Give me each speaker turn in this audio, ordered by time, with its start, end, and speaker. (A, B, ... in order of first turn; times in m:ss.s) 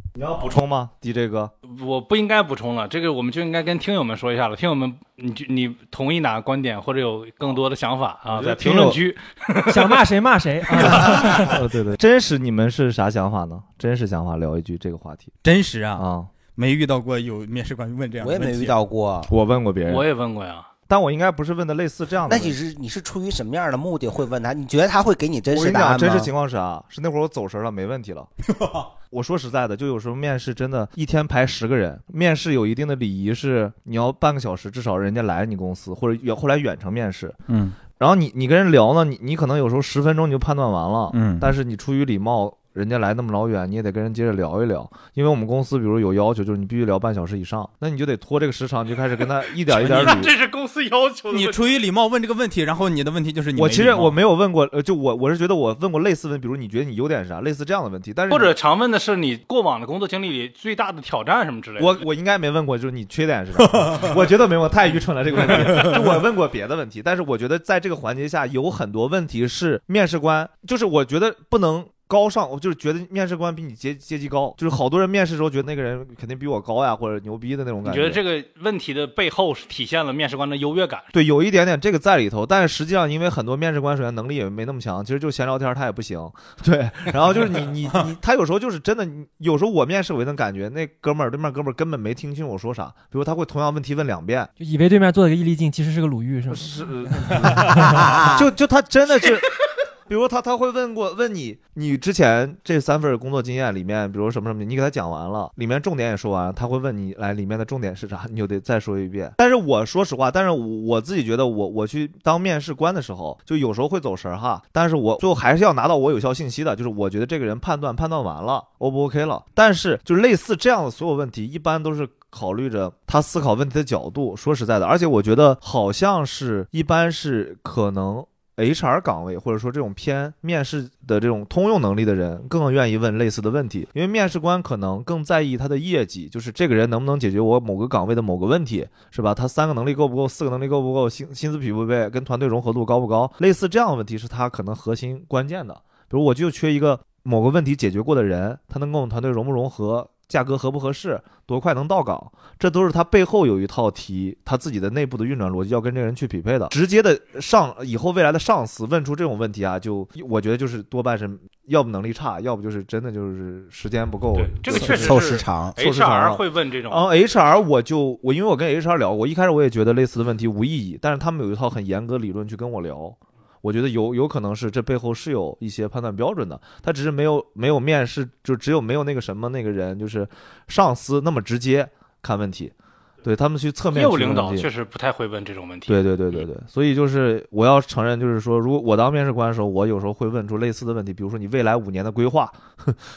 0:00.2-0:01.5 A
0:01.7-0:10.0 B
0:08.3-0:09.0 A
0:09.7-0:11.6 C
0:10.8-0:11.4 B
0:10.9-0:15.3 A
0:15.4-0:16.0 D
0:16.0-0:16.3 A
0:16.6-0:18.8 D
0:18.2-0:19.3 E
0:19.3-0:20.1 A
0:19.9-0:20.7 B
0:20.9-0:22.6 A
0:22.3-0:26.3 E
0:25.5-0:28.3 A
0:28.5-0:28.9 D
0:29.1-0:37.4 A
0:37.5-0:37.8 D
0:38.0-0:50.3 A
0:41.1-0:41.5 D
0:49.7-0:51.6 B
0:49.8-0:50.2 D
0:51.3-0:54.2 D
0:53.6-0:58.5 A
0:58.3-1:02.0 B
1:01.8-1:18.2 A
1:03.8-1:04.1 D
1:05.7-1:06.0 D
1:17.8-1:21.1 B
1:21.1-1:34.5 A
1:34.6-1:37.9 C
1:36.5-1:39.5 A
1:37.6-1:38.5 E
1:40.1-3:02.7 A
2:44.4-2:47.0 B
2:44.7-2:45.8 E
3:03.2-3:04.7 A
3:03.9-3:06.0 B
3:05.9-3:13.0 A